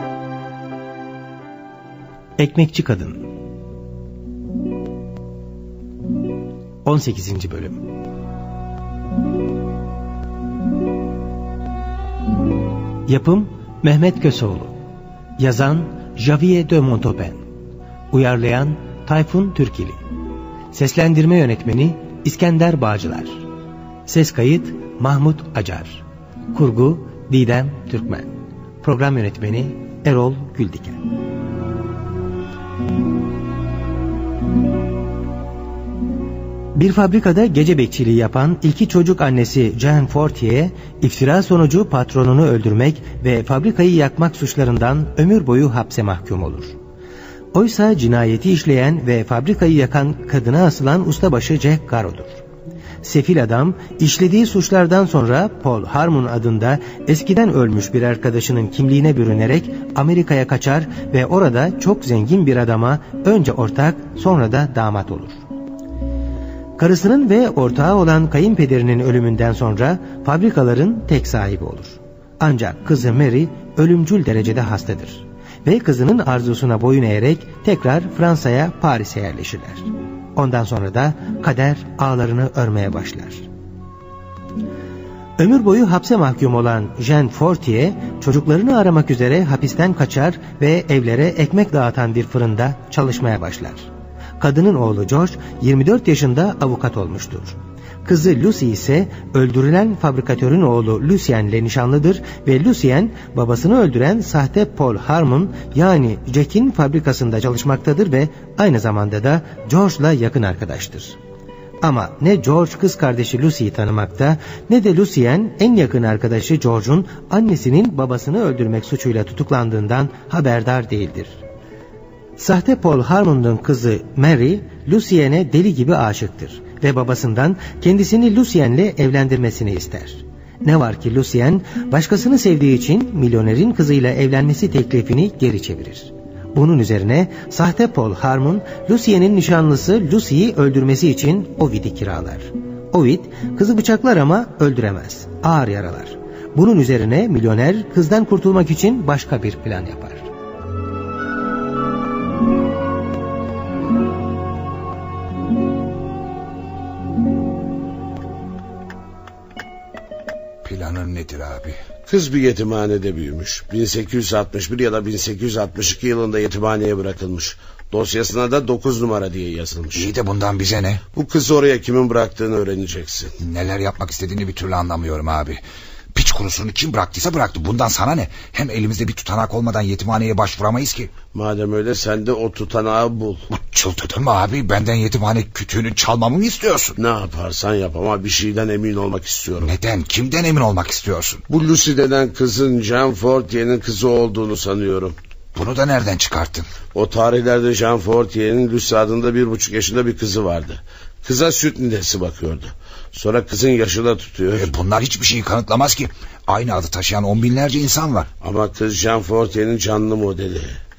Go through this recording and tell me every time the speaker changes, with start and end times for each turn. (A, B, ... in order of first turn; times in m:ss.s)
0:02.4-0:03.2 A
0:06.8-0:07.8 A
0:13.1-0:14.8 A
0:15.4-0:17.4 A
0:18.1-0:20.0 A
0:20.7-0:23.4 A
0:24.1-0:31.0 A
0:36.8-0:46.8 A
0:47.5-0:52.4 A
0:53.0-1:05.4 A
1:06.8-1:23.4 A
1:25.4-1:33.9 A
1:34.4-1:51.2 A
1:51.8-2:01.4 A
2:02.4-2:30.3 A
2:40.6-2:41.8 B
2:42.1-2:50.1 C
2:49.9-2:51.0 B
2:51.2-2:53.3 C
2:53.4-3:01.1 B
3:01.3-3:03.4 C
3:03.5-3:07.0 B
3:07.0-3:09.7 C
3:09.6-3:11.4 B
3:11.5-3:15.2 C
3:15.6-3:16.7 B
3:16.9-3:24.7 C
3:24.6-3:28.3 B
3:28.4-3:30.8 C